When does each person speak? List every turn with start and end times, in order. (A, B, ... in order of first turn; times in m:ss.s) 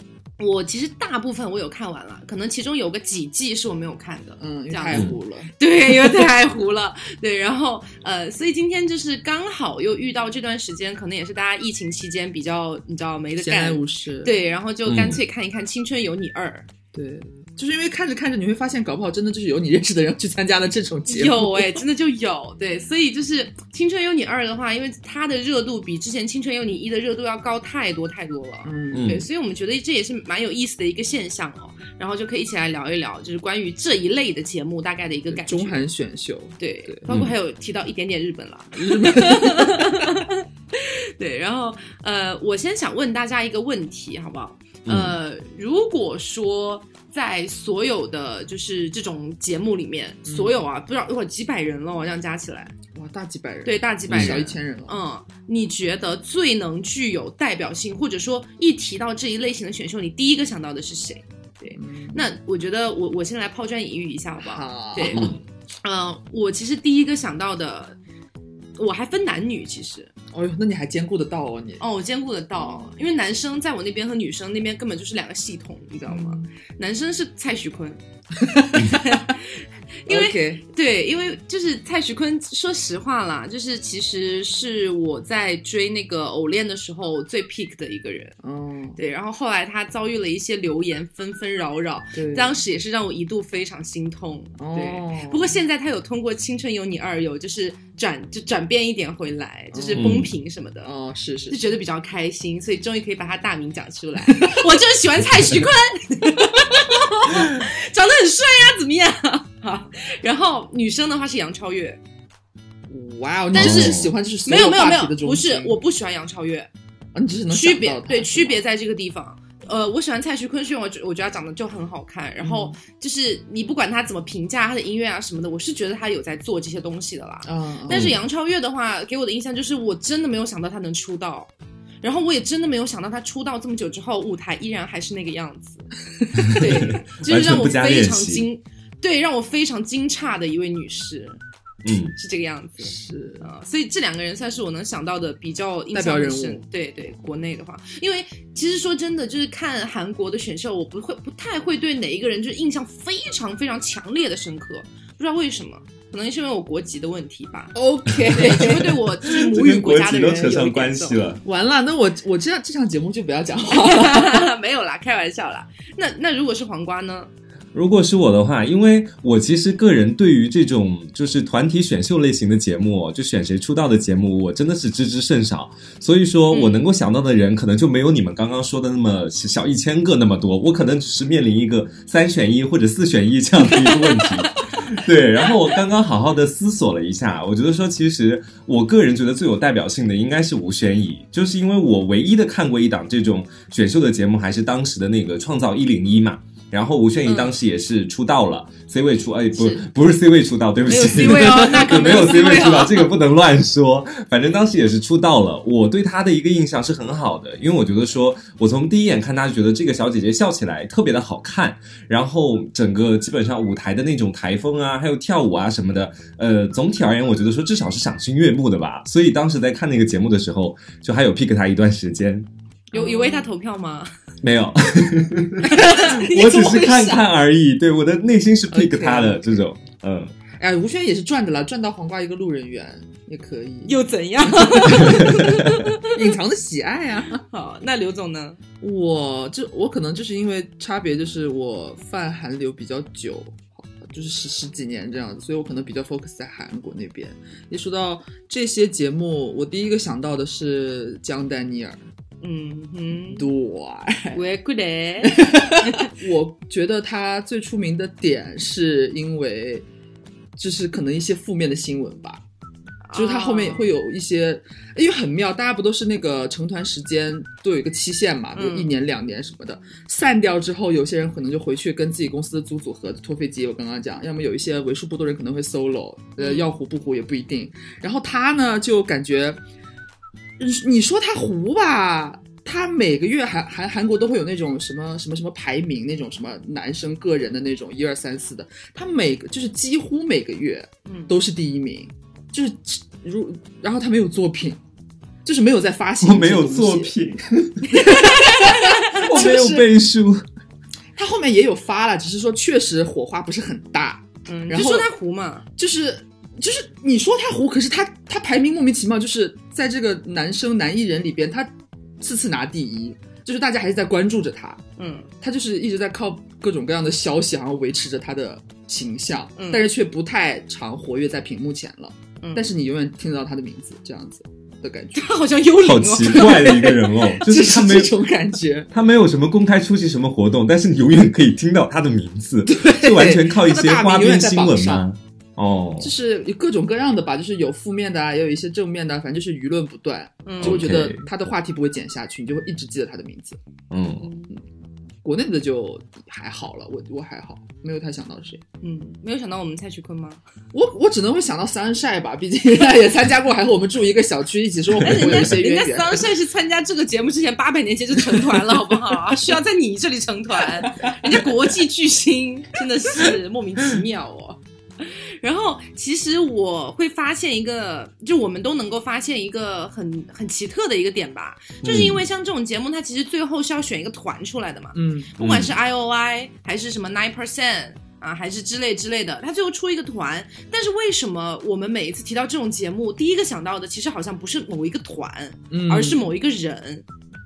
0:00.4-0:16.7 A
0:04.4-0:05.5 B
0:13.4-0:14.3 B
0:14.9-0:15.2 C
0:16.9-0:21.8 B
0:21.1-0:35.8 A
0:28.6-0:29.1 B
0:28.9-0:29.3 C
0:35.3-0:37.0 B
0:36.6-0:52.7 A
0:37.1-0:37.3 C
0:38.8-0:40.0 B
0:44.8-0:45.2 C
0:50.2-0:50.6 B
0:53.0-0:55.0 B
0:53.6-1:05.3 A
0:54.1-0:54.4 C
1:01.8-1:02.2 B
1:04.4-1:05.3 B
1:05.1-1:05.4 C
1:05.8-1:08.0 A
1:08.8-1:10.1 A
1:10.3-1:11.8 B
1:11.8-1:18.0 A
1:12.6-1:12.9 B
1:16.1-1:16.5 B
1:18.4-1:19.2 B
1:18.6-1:28.4 A
1:20.1-1:20.6 B
1:28.4-1:29.0 B
1:29.0-1:40.9 A
1:32.2-1:32.5 B
1:34.6-1:35.6 B
1:39.7-1:40.2 B
1:39.9-1:40.4 C
1:40.8-1:41.6 B
1:41.5-1:52.0 A
1:44.3-1:44.6 B
1:52.9-1:55.8 B
1:53.5-1:56.7 A
1:53.6-1:54.1 C
1:57.1-1:58.6 B
1:57.5-2:11.5 A
2:02.4-2:02.8 B
2:07.4-2:08.1 B
2:07.9-2:08.2 C
2:12.0-2:15.8 A
2:16.4-2:18.5 C
2:16.4-2:21.4 A
2:21.8-2:22.2 C
2:22.1-2:37.8 A
2:22.8-2:23.5 B
2:25.9-2:26.6 B
2:37.7-2:39.0 B
2:38.3-2:41.2 A
2:38.4-2:41.4 C
2:41.4-2:44.5 B
2:43.7-2:47.3 A
2:47.7-3:42.5 C
2:56.5-2:56.8 A
3:03.7-3:04.8 A
3:17.3-3:17.6 A
3:19.6-3:19.9 A
3:20.9-3:22.4 B
3:20.9-3:23.1 A
3:42.9-3:43.5 B
3:42.9-3:44.1 A
3:44.4-3:50.3 C
3:45.6-3:47.2 A
3:45.6-3:46.0 B
3:48.7-3:49.6 B
3:50.6-3:57.4 B
3:53.9-3:56.2 A
3:57.4-3:58.6 A
3:58.8-4:12.0 B
4:12.4-4:13.5 A
4:13.3-4:14.4 B
4:14.3-4:16.1 A
4:15.2-4:19.9 B
4:20.6-4:22.4 B
4:23.0-4:23.9 A
4:23.1-4:39.6 B
4:28.5-4:28.9 A
4:36.4-4:36.7 A
4:40.6-4:54.8 B
4:51.1-4:51.3 A
4:55.4-4:57.2 B
4:56.2-4:58.0 C
4:57.8-4:59.3 A
4:57.9-4:59.9 B
4:58.7-5:00.4 C
5:01.2-5:05.1 B
5:04.5-5:05.6 A
5:05.8-5:11.7 B
5:12.2-5:14.8 B
5:15.0-5:15.3 A
5:15.4-5:25.3 B
5:19.6-5:19.9 A
5:22.4-5:22.7 A
5:25.1-5:27.0 A
5:25.8-5:28.2 C
5:26.3-5:28.9 B
5:28.9-5:36.1 C
5:32.6-5:35.0 B
5:36.0-5:43.6 B
5:40.5-5:40.8 A
5:40.6-5:41.3 C
5:43.9-5:44.3 C
5:44.2-5:44.5 A
5:45.2-5:48.6 B
5:48.8-5:50.4 A
5:50.7-5:56.3 B
5:55.0-5:55.5 C
5:55.0-6:27.1 A
6:00.8-6:01.4 B
6:11.8-6:12.2 C
6:14.9-6:15.3 B
6:15.4-6:15.8 C
6:25.7-6:26.2 B